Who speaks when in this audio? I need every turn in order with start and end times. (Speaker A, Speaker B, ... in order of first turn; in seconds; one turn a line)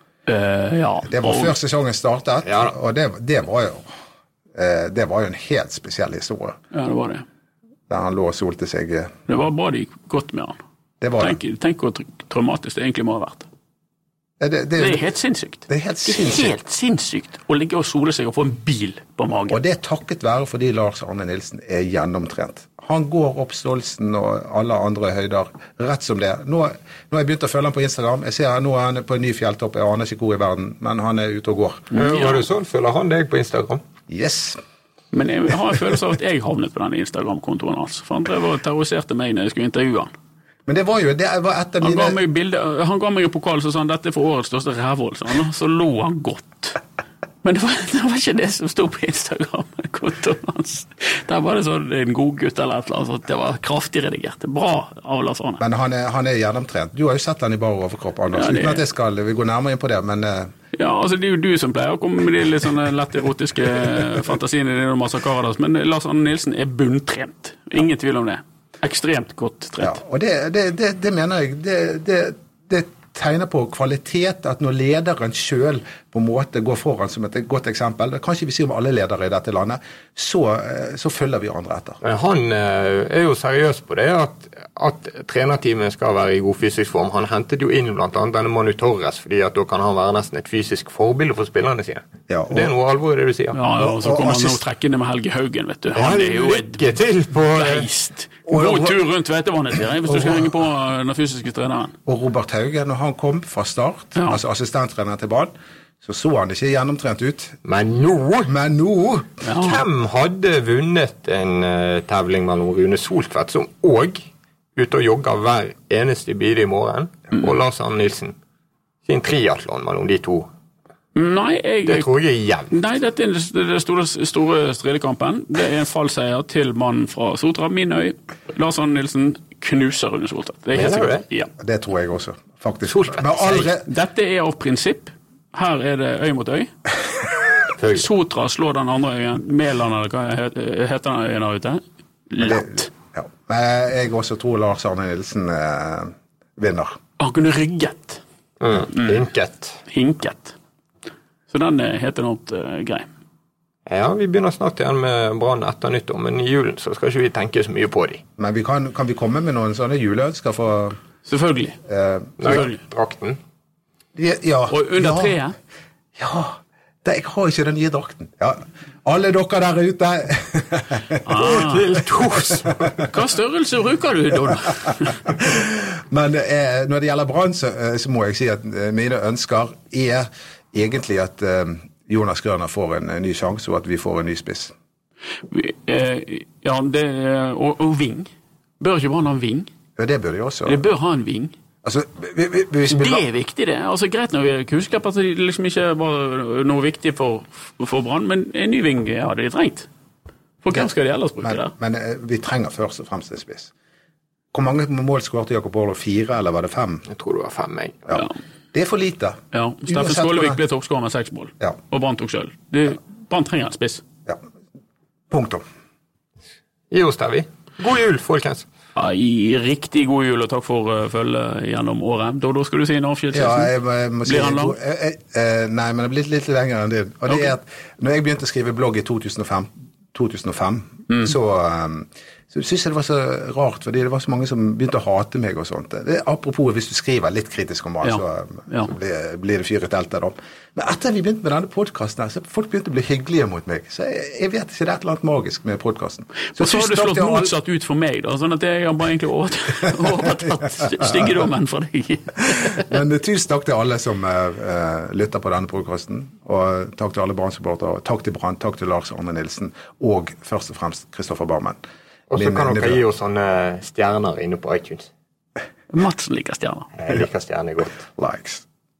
Speaker A: 0.3-1.5
Speaker B: 1.1-3.9
Speaker C: 2.5-2.8
Speaker B: 4.5-6.6
Speaker A: 6.7-7.2
Speaker B: 7.9-9.1
Speaker A: 9.3-10.6
Speaker B: 11.0-11.4
Speaker A: 11.2-13.5
Speaker B: 14.4-15.1
Speaker A: 14.8-19.6
Speaker B: 15.7-16.6
Speaker B: 19.5-31.9
Speaker A: 31.9-32.5
Speaker C: 31.9-33.8
Speaker B: 34.1-34.6
Speaker A: 35.1-40.1
Speaker B: 40.7-42.2
Speaker A: 41.8-46.8
Speaker A: 47.4-55.6
Speaker B: 55.6-60.5
Speaker A: 58.3-58.8
Speaker A: 60.7-70.0
Speaker B: 69.8-82.0
Speaker C: 82.0-93.6
Speaker B: 92.3-92.7
Speaker A: 93.5-96.8
Speaker B: 93.8-94.6
Speaker C: 96.0-97.9
Speaker A: 97.5-102.0
Speaker B: 98.5-99.0
Speaker B: 100.1-100.5
Speaker B: 102.1-105.5
Speaker B: 106.0-107.6
Speaker C: 107.7-108.5
Speaker B: 108.5-109.4
Speaker A: 109.4-109.8
Speaker C: 109.5-118.3
Speaker C: 119.0-120.5
Speaker A: 121.2-122.1
Speaker C: 121.9-122.7
Speaker A: 122.7-131.5
Speaker C: 130.8-131.2
Speaker B: 131.6-133.9
Speaker C: 133.0-133.7
Speaker A: 133.8-136.7
Speaker C: 137.8-138.1
Speaker A: 137.9-142.9
Speaker B: 142.4-147.0
Speaker A: 147.2-148.2
Speaker C: 148.6-149.8
Speaker A: 148.9-149.2
Speaker A: 149.9-150.6
Speaker A: 151.5-153.1
Speaker C: 153.9-158.2
Speaker B: 158.4-161.0
Speaker A: 161.3-161.8
Speaker B: 161.9-162.6
Speaker C: 162.4-163.4
Speaker A: 162.4-162.8
Speaker B: 164.2-165.3
Speaker A: 164.7-165.6
Speaker B: 166.2-171.2
Speaker A: 171.2-171.9
Speaker C: 171.4-173.0
Speaker A: 173.1-175.1
Speaker B: 175.3-184.7
Speaker A: 185.5-189.7
Speaker B: 190.0-190.8
Speaker A: 190.7-191.5
Speaker B: 191.8-193.2
Speaker A: 192.9-199.9
Speaker A: 200.6-201.7
Speaker B: 201.4-203.7
Speaker B: 204.5-207.1
Speaker C: 207.1-208.1
Speaker B: 208.1-210.6
Speaker A: 209.5-214.0
Speaker B: 215.3-215.6
Speaker C: 216.9-218.7
Speaker A: 219.0-223.7
Speaker B: 223.3-247.6
Speaker A: 224.2-224.8
Speaker A: 238.0-238.9
Speaker A: 246.5-252.9
Speaker B: 250.8-251.3
Speaker B: 252.5-261.8
Speaker C: 262.3-265.1
Speaker B: 262.4-263.0
Speaker A: 265.9-266.9
Speaker C: 267.0-268.0
Speaker B: 268.2-268.6